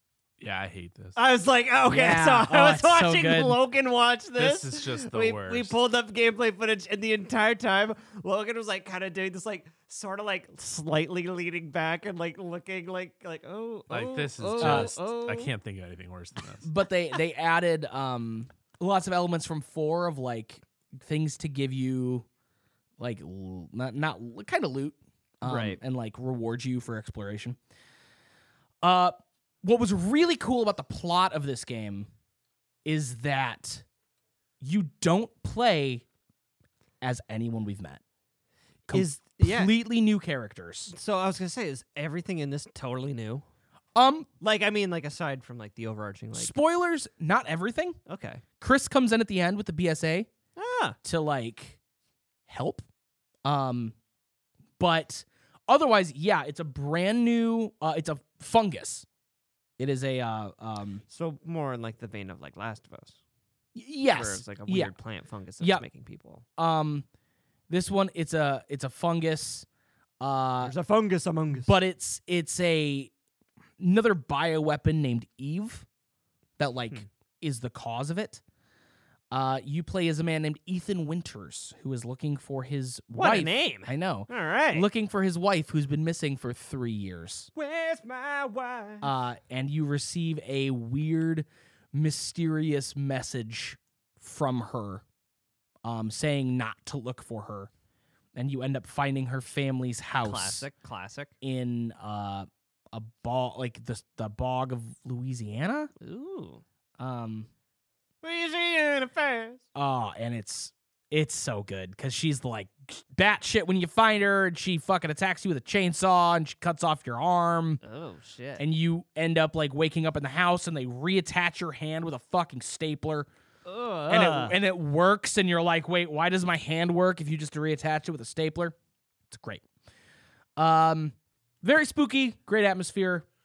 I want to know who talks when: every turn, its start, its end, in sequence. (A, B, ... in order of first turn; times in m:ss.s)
0:00.4-0:01.2 A
0:01.2-0:15.5 B
0:01.9-0:03.6 C
0:04.4-0:05.8 A
0:13.9-0:16.7 A
0:14.6-0:14.9 C
0:16.6-0:22.3 C
0:23.0-0:27.6 C
0:25.4-0:25.8 B
0:28.8-0:32.1 C
0:32.8-0:33.8 C
0:34.6-0:36.0 C
0:37.0-0:38.0 C
0:38.9-0:40.9 C
0:38.9-0:39.7 B
0:40.9-0:43.5 B
0:44.0-0:44.3 C
0:44.4-0:46.5 B
0:46.4-0:48.0 C
0:48.1-0:48.4 B
0:48.6-0:50.3 C
0:50.6-0:51.0 B
0:51.0-0:51.8 C
0:52.5-0:52.9 C
0:53.4-0:54.0 C
0:54.8-0:59.1 C
0:59.8-1:01.0 C
1:01.1-1:03.2 B
1:03.8-1:04.9 C
1:04.1-1:06.4 B
1:05.6-1:05.9 C
1:06.6-1:07.1 C
1:07.7-1:09.7 C
1:10.2-1:10.7 C
1:10.6-1:11.7 B
1:11.6-1:13.1 C
1:13.8-1:15.9 C
1:16.6-1:18.4 C
1:19.3-1:27.5 C
1:23.1-1:24.9 B
1:27.6-1:29.1 B
1:29.0-1:35.0 C
1:35.8-1:37.7 C
1:38.4-1:40.7 C
1:40.2-1:41.3 B
1:41.4-1:45.9 C
1:46.0-1:46.6 B
1:47.0-1:47.5 C
1:48.2-1:49.6 B
1:49.8-1:57.8 C
1:57.8-1:58.6 B
1:58.6-2:03.3 C
2:03.7-2:04.6 B
2:04.1-2:08.8 C
2:09.3-2:09.6 C
2:10.6-2:13.3 C